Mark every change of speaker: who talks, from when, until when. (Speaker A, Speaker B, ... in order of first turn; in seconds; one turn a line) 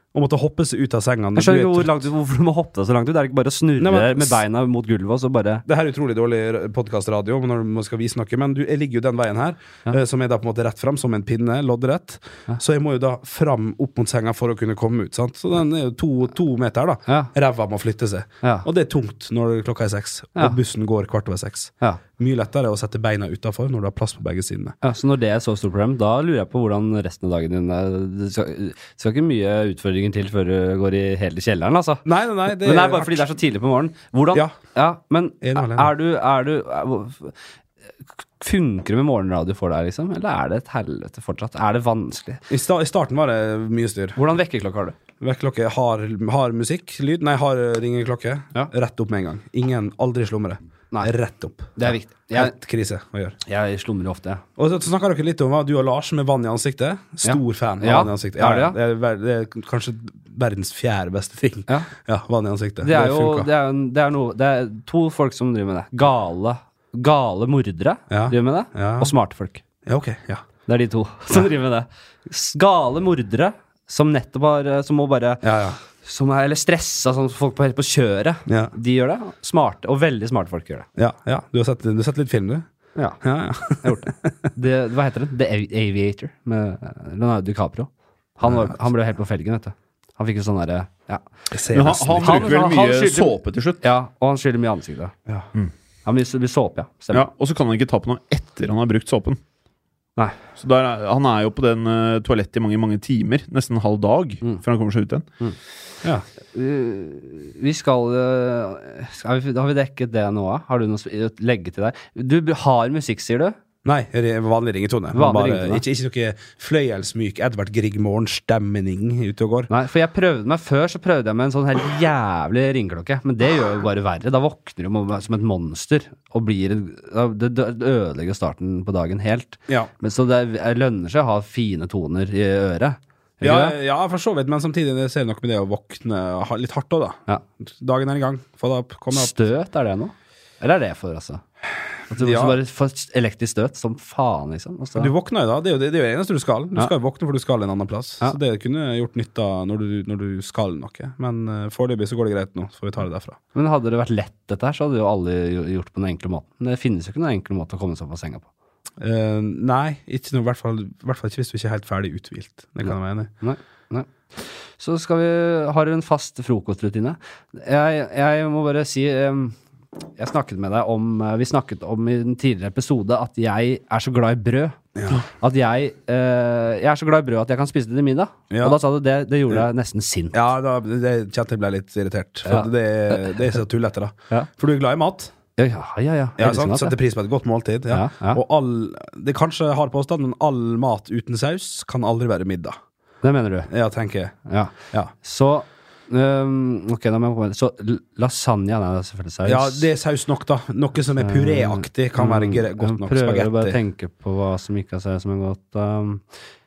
Speaker A: 0.1-2.0
Speaker B: 1.4-5.6
Speaker A: 3.8-4.4
Speaker A: 5.7-24.8
Speaker B: 24.8-37.3
Speaker A: 32.0-33.2
Speaker A: 35.4-35.9
Speaker B: 38.4-42.4
Speaker A: 42.5-44.2
Speaker B: 44.2-45.0
Speaker A: 45.2-53.4
Speaker B: 51.8-52.5
Speaker B: 53.5-54.4
Speaker A: 54.6-63.5
Speaker B: 57.2-58.8
Speaker B: 62.8-69.6
Speaker A: 68.1-69.1
Speaker A: 69.9-70.5
Speaker B: 70.7-80.9
Speaker A: 75.4-75.8
Speaker A: 78.5-78.7
Speaker A: 81.0-82.7
Speaker A: 83.2-84.3
Speaker B: 83.8-91.2
Speaker A: 88.5-88.8
Speaker A: 91.5-92.5
Speaker C: 91.7-93.8
Speaker B: 92.2-95.1
Speaker B: 96.0-97.3
Speaker C: 97.1-99.4
Speaker C: 100.6-105.2
Speaker B: 106.5-113.6
Speaker A: 113.8-119.7
Speaker B: 115.1-115.8
Speaker B: 119.7-133.8
Speaker A: 133.4-139.3
Speaker B: 139.1-141.4
Speaker A: 142.1-142.6
Speaker B: 142.1-145.1
Speaker A: 145.0-153.4
Speaker B: 153.5-158.5
Speaker A: 159.0-163.3
Speaker B: 163.4-169.6
Speaker B: 170.2-174.8
Speaker A: 174.9-175.2
Speaker B: 175.3-180.4
Speaker A: 178.5-178.8
Speaker A: 180.3-185.3
Speaker B: 182.4-183.3
Speaker B: 185.6-187.0
Speaker A: 186.4-192.8
Speaker B: 187.9-188.4
Speaker B: 193.2-193.7
Speaker A: 193.7-194.4
Speaker B: 194.5-199.9
Speaker A: 199.4-203.8
Speaker B: 201.2-206.2